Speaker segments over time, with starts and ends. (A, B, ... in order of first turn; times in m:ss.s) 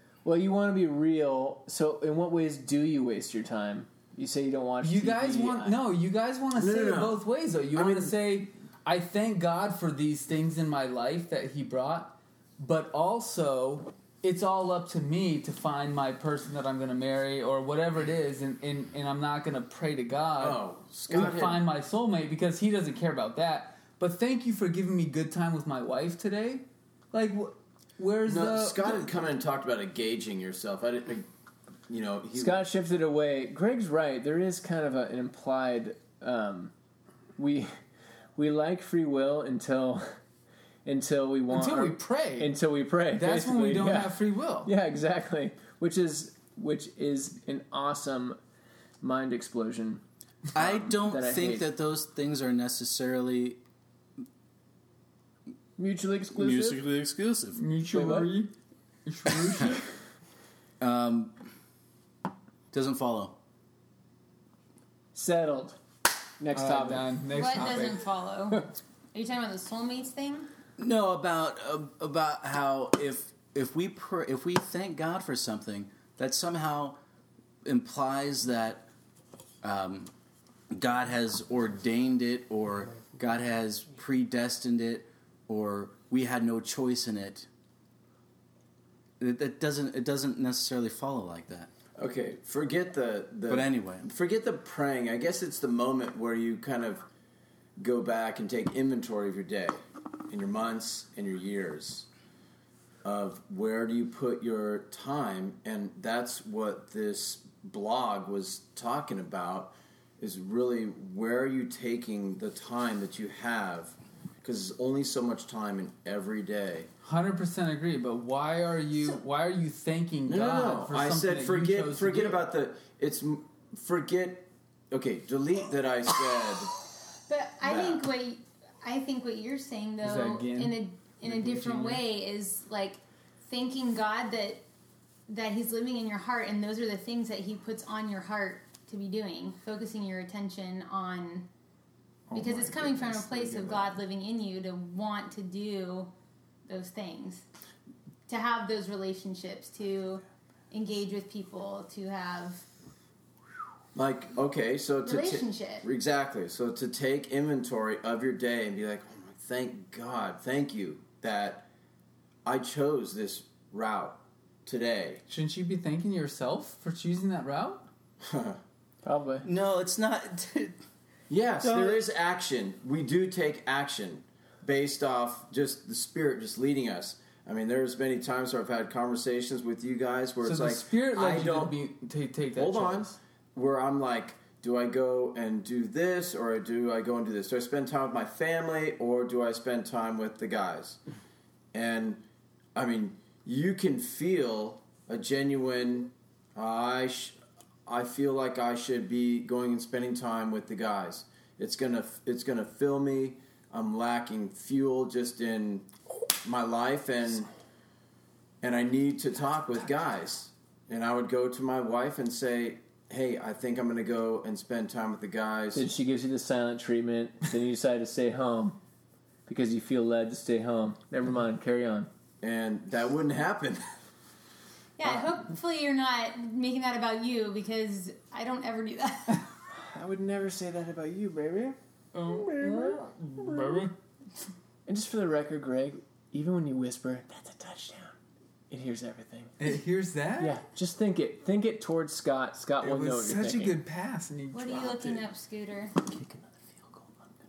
0:00.2-0:05.8 A
0:04.8-0:29.1 B
0:06.6-0:07.2 C
0:07.7-0:08.2 C
0:20.4-0:21.6 C
0:28.3-0:31.3 C
0:31.9-0:32.6 C
0:32.4-0:36.7 A
0:37.4-0:37.8 A
0:38.4-0:40.2 A
0:40.8-0:48.4 A
0:41.5-0:42.5 B
0:43.1-0:44.7 B
0:49.0-0:50.0 A
0:50.5-0:53.6 D
0:50.6-0:51.7 A
0:55.8-0:56.8 A
0:56.4-0:57.6 D
0:57.6-0:58.5 B
0:57.9-0:58.3 A
0:59.1-0:59.8 B
1:00.8-1:01.4 D
1:02.7-1:03.4 D
1:05.2-1:05.8 A
1:06.4-1:07.2 A
1:06.5-1:08.0 B
1:07.3-1:10.5 E
1:10.8-1:17.0 D
1:17.6-1:18.8 D
1:19.6-1:20.1 D
1:20.7-1:27.5 D
1:29.2-1:31.7 D
1:32.0-1:37.1 C
1:33.5-1:34.1 D
1:37.8-1:42.1 C
1:43.0-1:56.9 C
1:57.0-2:02.5 B
2:00.3-2:06.8 C
2:07.3-2:14.6 E
2:07.6-2:08.0 C
2:10.0-2:12.0 B
2:15.3-2:21.5 E
2:22.3-2:24.0 B
2:22.3-2:26.1 E
2:26.7-2:27.4 E
2:28.3-2:32.6 E
2:34.0-2:41.7 C
2:35.0-2:35.9 E
2:42.4-2:45.2 C
2:45.3-2:47.9 B
2:48.2-2:48.6 C
2:49.0-2:49.5 A
2:49.4-2:50.7 D
2:51.3-3:01.7 C
2:51.6-2:52.0 D
3:00.4-3:03.2 B
3:02.6-3:11.0 C
3:11.7-3:12.2 C
3:12.8-3:25.9 C
3:26.4-3:27.5 C
3:28.6-3:35.8 C
3:35.7-3:38.8 A
3:39.5-3:42.1 A
3:42.4-3:43.8 C
3:45.0-3:49.5 E
3:49.7-3:53.9 A
3:52.1-3:53.9 B
3:54.9-3:58.2 A
3:58.7-3:59.6 A
3:59.6-4:00.6 B
4:00.4-4:03.8 A
4:02.8-4:05.2 B
4:04.5-4:06.0 E